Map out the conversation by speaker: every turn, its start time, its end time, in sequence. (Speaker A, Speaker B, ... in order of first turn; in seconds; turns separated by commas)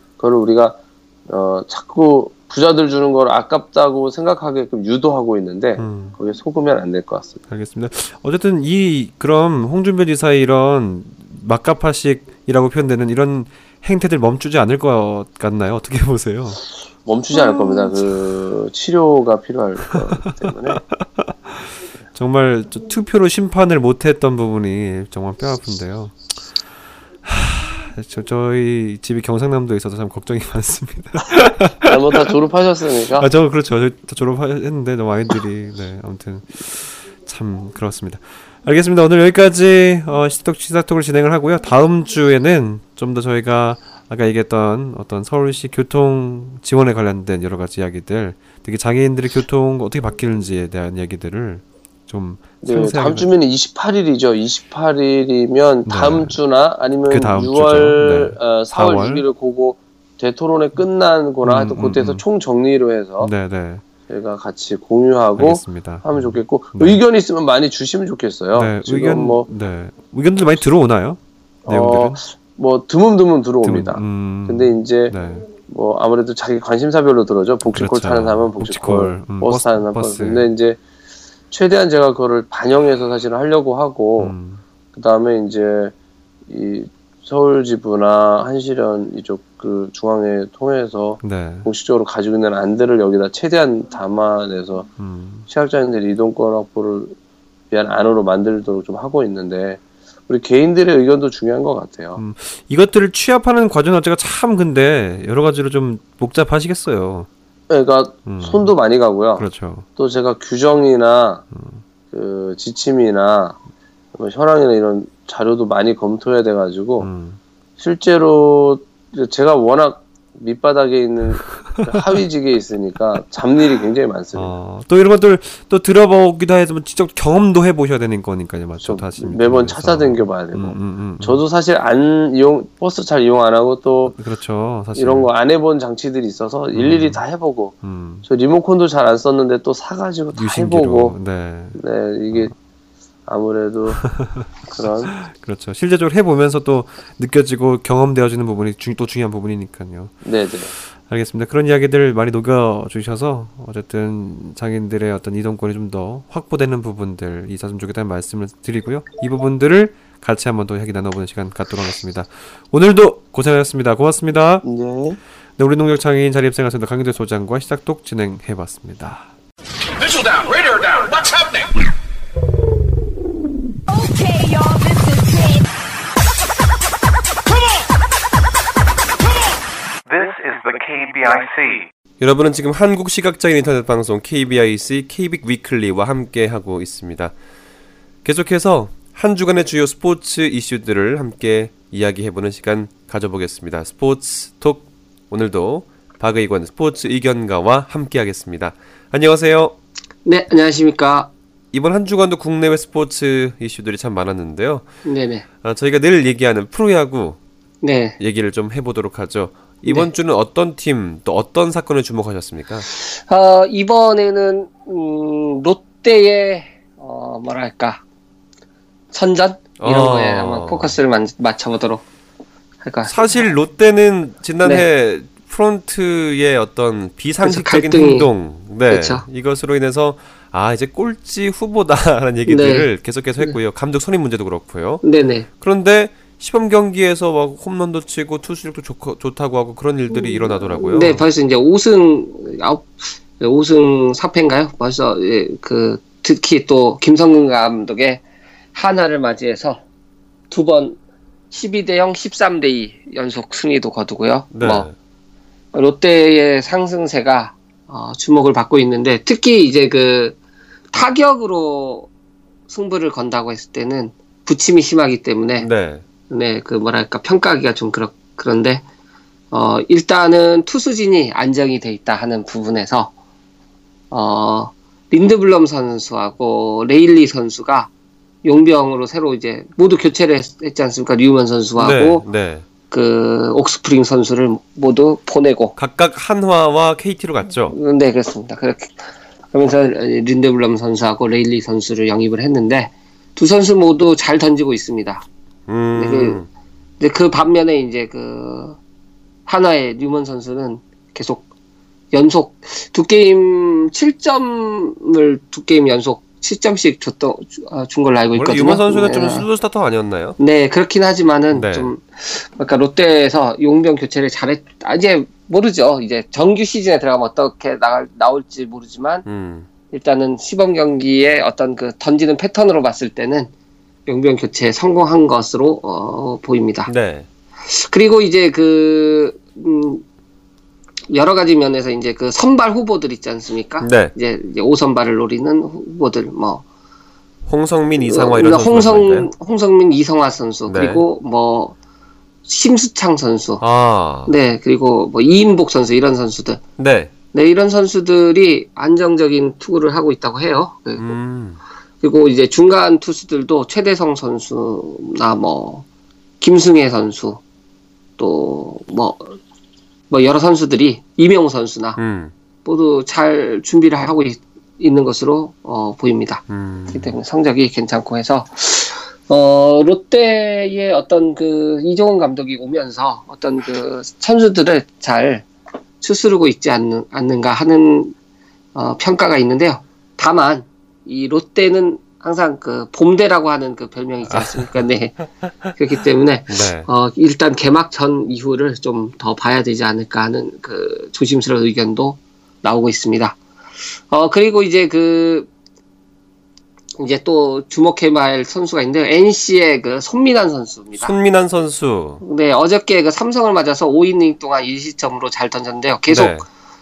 Speaker A: 0.2-7.4, Speaker B: 5.8-6.2, Speaker B: 7.5-16.6, Speaker A: 17.1-20.8, Speaker B: 17.4-18.1, Speaker B: 20.5-26.4, Speaker B: 27.2-32.3, Speaker A: 31.8-33.3, Speaker B: 33.0-53.3, Speaker A: 52.6-63.3, Speaker B: 55.9-56.4, Speaker B: 57.1-59.3, Speaker B: 61.4-62.2, Speaker B: 63.2-63.8, Speaker A: 64.1-69.5, Speaker B: 65.4-67.0, Speaker B: 68.5-72.2, Speaker A: 71.6-80.8, Speaker B: 73.6-75.5, Speaker B: 77.6-80.5, Speaker A: 81.5-84.3, Speaker B: 84.2-84.6, Speaker A: 84.9-85.9, Speaker A: 86.5-94.9, Speaker B: 91.2-91.7, Speaker B: 95.0-95.5, Speaker A: 95.5-97.1, Speaker A: 97.7-102.2, Speaker B: 102.2-107.3, Speaker A: 107.7-111.4, Speaker B: 108.3-108.7, Speaker B: 109.4-109.9, Speaker B: 111.5-111.8, Speaker A: 112.1-113.6, Speaker A: 114.1-117.1, Speaker B: 117.0-117.4, Speaker A: 117.8-124.6, Speaker B: 121.7-122.2, Speaker B: 124.3-131.4, Speaker A: 128.8-134.2, Speaker B: 134.1-135.3, Speaker A: 134.9-141.2, Speaker B: 136.7-137.2, Speaker B: 137.8-138.2, Speaker B: 140.3-142.5, Speaker A: 141.8-142.5, Speaker A: 143.3-144.1, Speaker B: 144.0-144.5, Speaker A: 144.7-145.2, Speaker B: 145.2-150.2, Speaker A: 150.2-150.7, Speaker B: 150.8-164.6, Speaker A: 164.6-165.2, Speaker B: 165.6-169.3, Speaker C: 170.0-171.7, Speaker C: 173.9-175.7, Speaker C: 180.1-181.9, Speaker D: 182.2-187.3, Speaker D: 188.2-199.8, Speaker E: 200.2-201.3, Speaker D: 201.7-204.9, Speaker E: 205.1-205.4, Speaker D: 205.6-207.4, Speaker E: 207.8-208.2, Speaker D: 208.2-212.9, Speaker E: 209.9-210.1, Speaker E: 212.9-218.0, Speaker E: 219.1-222.0, Speaker D: 219.8-220.9, Speaker E: 222.8-223.4, Speaker D: 223.1-235.0, Speaker E: 227.4-228.3, Speaker E: 228.9-229.2, Speaker E: 232.5-233.6, Speaker E: 235.0-235.5, Speaker D: 235.6-241.3, Speaker E: 240.1-248.2, Speaker E: 248.7-249.8, Speaker E: 250.5-251.0, Speaker E: 251.5-254.9, Speaker D: 254.5-254.9, Speaker E: 255.7-260.4, Speaker E: 260.9-262.1, Speaker E: 262.7-265.7, Speaker D: 265.6-266.1, Speaker E: 266.3-268.9, Speaker E: 269.5-273.1, Speaker E: 274.1-277.9, Speaker E: 278.4-282.2, Speaker D: 281.8-282.6, Speaker E: 282.9-285.8, Speaker D: 285.8-287.8, Speaker E: 287.7-295.2, Speaker D: 295.7-296.5, Speaker E: 295.9-296.4, Speaker E: 297.0-298.8, Speaker E: 299.4-301.4, Speaker E: 302.1-309.4, Speaker D: 308.3-310.4, Speaker E: 310.4-319.3, Speaker D: 311.5-311.9, Speaker D: 319.3-319.7, Speaker E: 319.9-323.5, Speaker E: 324.1-326.9, Speaker D: 326.9-327.3, Speaker E: 327.7-330.0, Speaker E: 331.1-336.6, Speaker D: 333.8-334.1, Speaker D: 337.5-339.3, Speaker E: 338.0-341.8, Speaker D: 340.7-341.1, Speaker E: 342.4-343.6, Speaker D: 343.6-344.3, Speaker E: 344.3-346.6, Speaker D: 346.8-347.1, Speaker E: 347.3-351.1, Speaker D: 350.9-351.6, Speaker E: 352.0-355.9, Speaker E: 356.4-357.4, Speaker E: 358.2-359.4, Speaker E: 360.1-362.0, Speaker D: 361.9-362.3, Speaker E: 362.6-375.5, Speaker D: 366.5-367.1, Speaker E: 376.0-378.1, Speaker E: 378.8-385.2, Speaker D: 384.2-384.7, Speaker E: 385.8-393.4, Speaker D: 386.5-386.9, Speaker E: 394.1-395.5, Speaker E: 397.0-401.1, Speaker D: 400.9-402.2, Speaker E: 402.2-406.4, Speaker D: 406.1-406.4